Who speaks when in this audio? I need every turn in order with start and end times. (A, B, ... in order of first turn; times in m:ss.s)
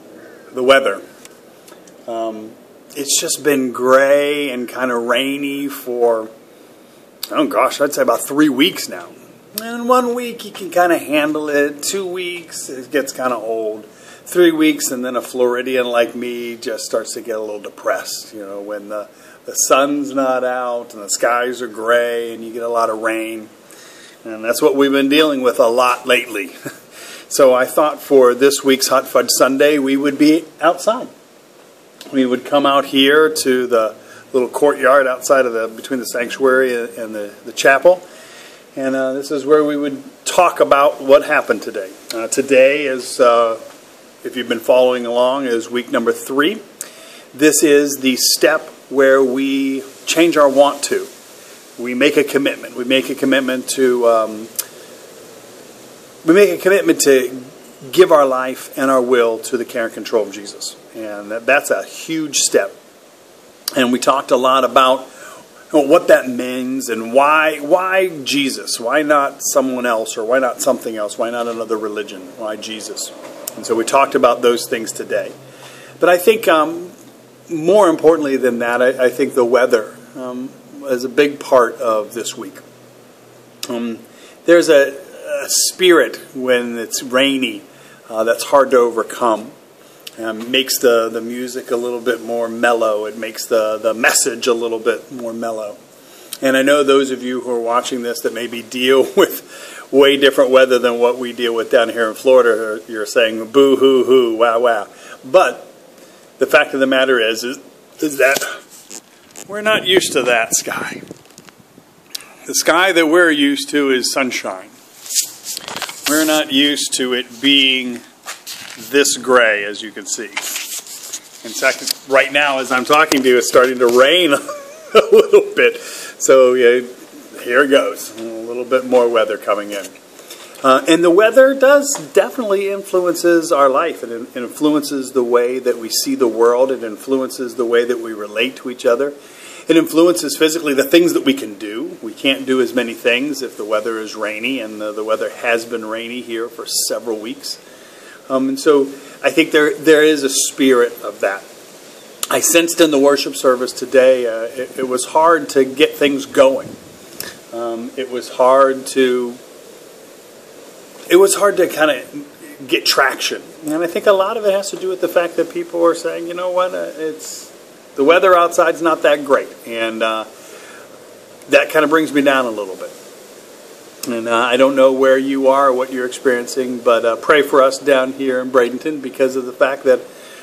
0:00.5-0:01.0 A
0:02.1-0:06.3 A
0:07.3-0:23.5 A
0:24.2-0:26.6 A
0:27.3-0:31.1 A
0:32.1-0:38.0 A
0:38.8-0:43.6 A
0:44.2-0:46.6 A
0:47.3-0:51.1 A
0:51.8-0:54.5 A
0:56.2-1:02.7 A
1:03.8-1:05.1 A
1:05.7-1:15.4 A
1:16.0-1:16.9 A
1:17.5-1:22.6 A
1:23.7-1:29.5 A
1:30.2-1:35.8 A
1:36.4-1:45.7 A
1:46.4-1:48.5 A
1:49.5-1:51.0 A
1:52.5-1:54.7 A
1:56.1-1:58.0 A
1:58.8-2:00.6 A
2:01.4-2:09.9 A
2:10.6-2:19.2 A
2:19.7-2:27.6 A
2:28.3-2:31.5 A
2:32.3-2:36.8 A
2:37.5-2:39.4 A
2:41.1-2:50.3 A
2:51.5-2:52.9 A
2:54.1-3:00.0 A